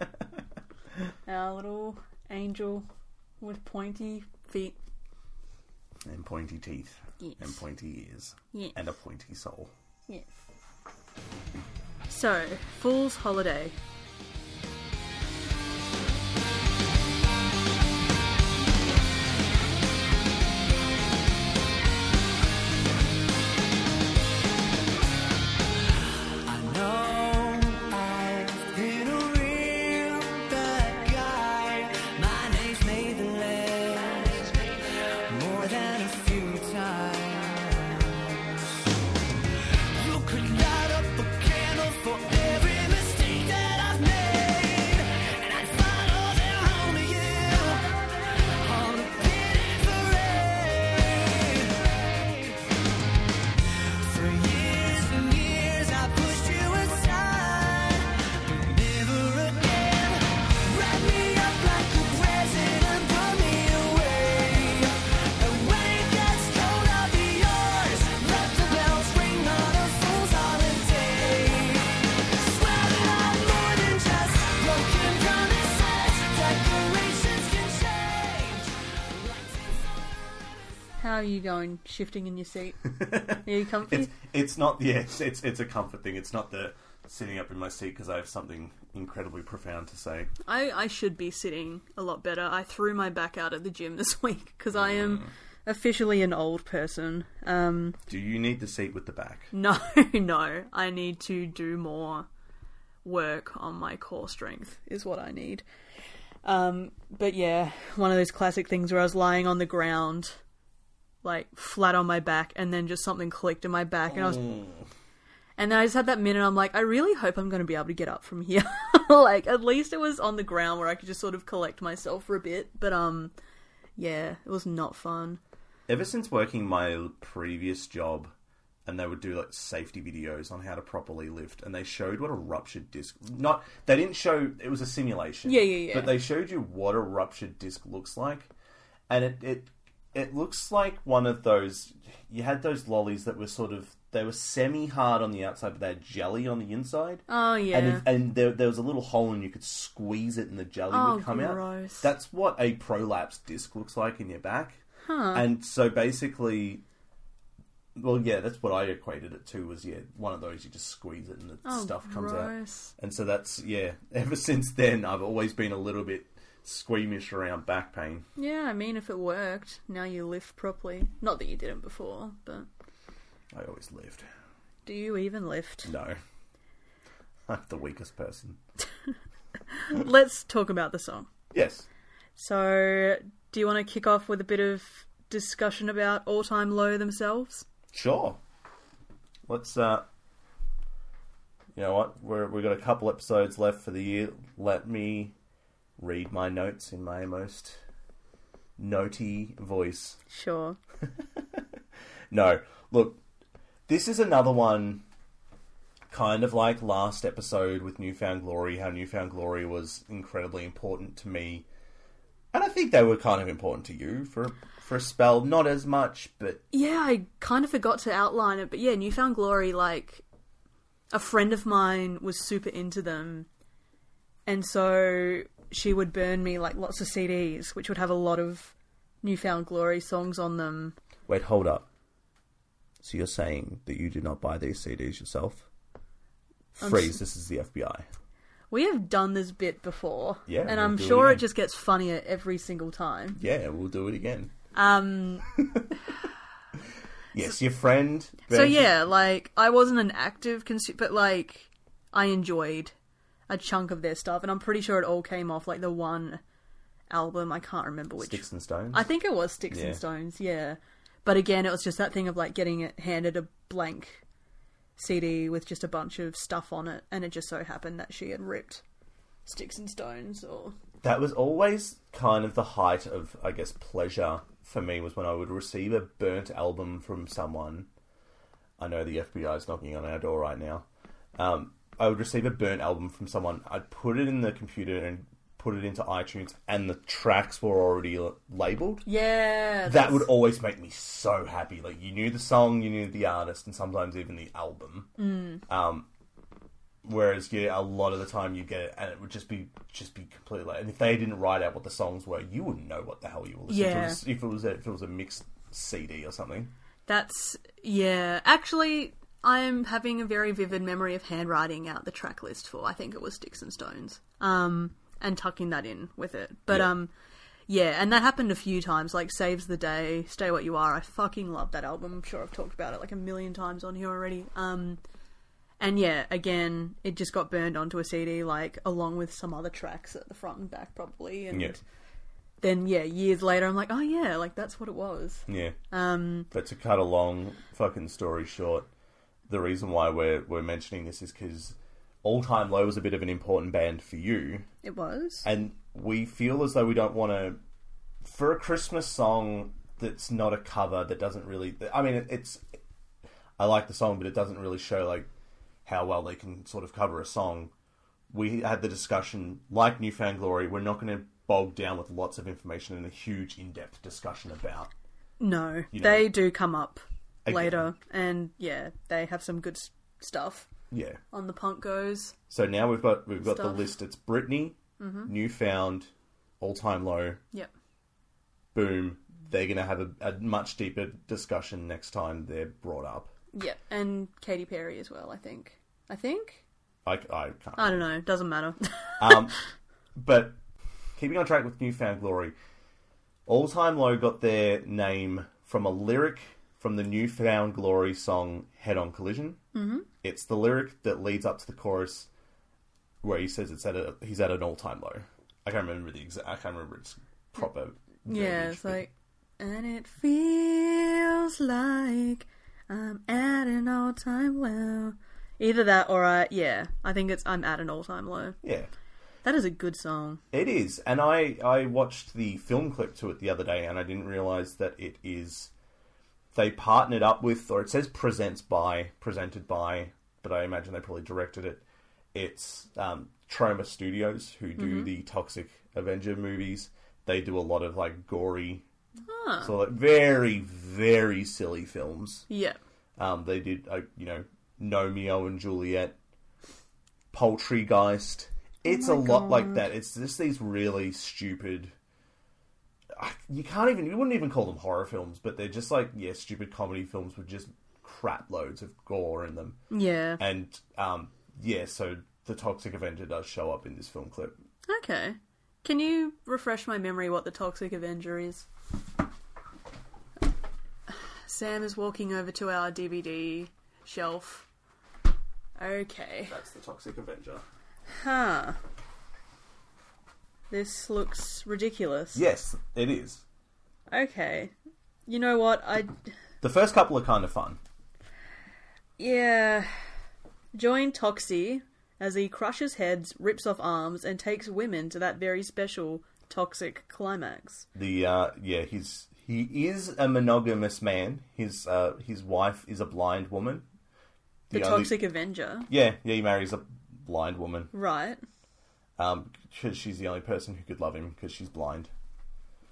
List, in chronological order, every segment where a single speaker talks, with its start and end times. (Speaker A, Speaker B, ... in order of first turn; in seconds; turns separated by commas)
Speaker A: 1.3-2.9, Speaker A: 3.4-4.8, Speaker B: 6.0-9.7, Speaker A: 7.2-7.6, Speaker A: 12.1-13.8, Speaker C: 26.4-38.6, Speaker C: 40.0-52.6, Speaker C: 54.0-79.9, Speaker A: 81.0-84.1, Speaker B: 82.9-90.3, Speaker A: 90.5-98.0, Speaker B: 94.8-95.3, Speaker B: 98.1-99.5, Speaker A: 99.5-102.3, Speaker A: 103.0-105.6, Speaker A: 106.5-110.4, Speaker A: 111.2-114.5, Speaker B: 114.1-114.9, Speaker A: 115.6-123.3, Speaker A: 124.0-125.4, Speaker B: 125.9-128.3, Speaker B: 128.9-138.5, Speaker A: 135.5-136.2, Speaker B: 139.1-154.8, Speaker A: 147.3-148.1, Speaker A: 150.9-152.1, Speaker A: 155.1-155.5, Speaker B: 155.3-156.8, Speaker B: 158.0-168.2, Speaker A: 161.7-162.9, Speaker A: 168.4-172.7, Speaker B: 173.5-174.3, Speaker A: 174.9-175.9, Speaker B: 175.8-176.2, Speaker B: 177.5-178.6, Speaker A: 179.7-181.3, Speaker B: 181.5-181.9, Speaker A: 182.4-187.7, Speaker B: 187.9-188.4, Speaker B: 189.5-190.1, Speaker B: 191.8-195.3, Speaker B: 196.0-197.8, Speaker B: 198.8-200.2, Speaker A: 200.3-200.8, Speaker B: 201.2-201.7, Speaker B: 202.3-203.2, Speaker B: 203.9-205.0, Speaker B: 206.1-211.7, Speaker B: 212.5-216.6, Speaker A: 216.7-220.2, Speaker A: 221.1-223.5, Speaker A: 224.5-231.0, Speaker B: 231.3-231.9, Speaker B: 233.0-235.7, Speaker B: 236.8-238.1, Speaker A: 236.8-237.2, Speaker A: 238.7-243.4, Speaker B: 240.5-241.5, Speaker B: 243.4-244.5, Speaker A: 244.7-245.5, Speaker B: 245.6-245.9, Speaker B: 247.3-248.9, Speaker A: 248.5-252.9, Speaker A: 253.5-256.4, Speaker A: 257.1-264.2, Speaker B: 258.2-259.1, Speaker B: 259.7-260.0, Speaker A: 265.0-268.8, Speaker A: 269.4-270.8, Speaker B: 271.0-277.9, Speaker B: 278.8-289.1, Speaker A: 289.1-290.3, Speaker B: 289.9-295.1, Speaker A: 295.2-295.6, Speaker B: 295.7-296.1, Speaker B: 297.0-306.7, Speaker A: 303.7-304.2, Speaker A: 307.1-317.1, Speaker A: 317.7-325.0, Speaker A: 325.8-331.8, Speaker B: 331.5-331.8, Speaker A: 332.6-336.5, Speaker B: 335.5-335.8, Speaker B: 336.5-338.9, Speaker B: 339.5-344.7, Speaker A: 344.8-345.5, Speaker B: 345.4-347.6, Speaker B: 348.2-352.8, Speaker B: 353.6-355.3, Speaker B: 355.9-357.7, Speaker B: 358.3-364.9, Speaker A: 365.4-370.7, Speaker B: 365.9-366.3, Speaker B: 367.4-367.8, Speaker B: 370.9-371.2, Speaker A: 371.3-372.4, Speaker B: 372.5-377.4, Speaker A: 373.4-373.8, Speaker A: 375.0-375.3, Speaker B: 378.7-383.3, Speaker A: 383.5-386.6, Speaker B: 387.1-388.0, Speaker A: 387.8-389.5, Speaker B: 389.2-389.6, Speaker B: 390.2-390.6, Speaker B: 391.2-392.6, Speaker B: 393.5-399.6, Speaker A: 399.7-400.1, Speaker B: 400.2-402.3, Speaker B: 403.2-409.0, Speaker A: 408.3-418.6, Speaker B: 418.6-418.9, Speaker A: 419.4-420.4, Speaker B: 420.5-425.7, Speaker B: 426.5-431.8, Speaker B: 432.3-438.9, Speaker A: 434.8-435.1, Speaker A: 439.3-439.8, Speaker B: 439.6-442.5, Speaker A: 442.5-442.8, Speaker B: 443.2-446.2, Speaker B: 447.3-451.9, Speaker A: 448.9-449.9, Speaker B: 453.1-459.8, Speaker A: 459.9-460.4, Speaker B: 460.4-464.6, Speaker A: 464.9-468.7, Speaker A: 471.1-474.7, Speaker A: 475.8-476.6, Speaker B: 476.5-477.6, Speaker A: 478.1-478.8, Speaker A: 480.7-482.4, Speaker B: 482.3-483.4, Speaker A: 484.1-484.7, Speaker A: 485.3-486.1, Speaker B: 486.6-487.8, Speaker A: 489.2-489.9, Speaker A: 490.7-497.9, Speaker B: 497.9-503.9, Speaker B: 504.7-505.2, Speaker A: 504.7-505.9, Speaker B: 505.9-507.9, Speaker A: 507.9-508.4, Speaker B: 509.2-512.1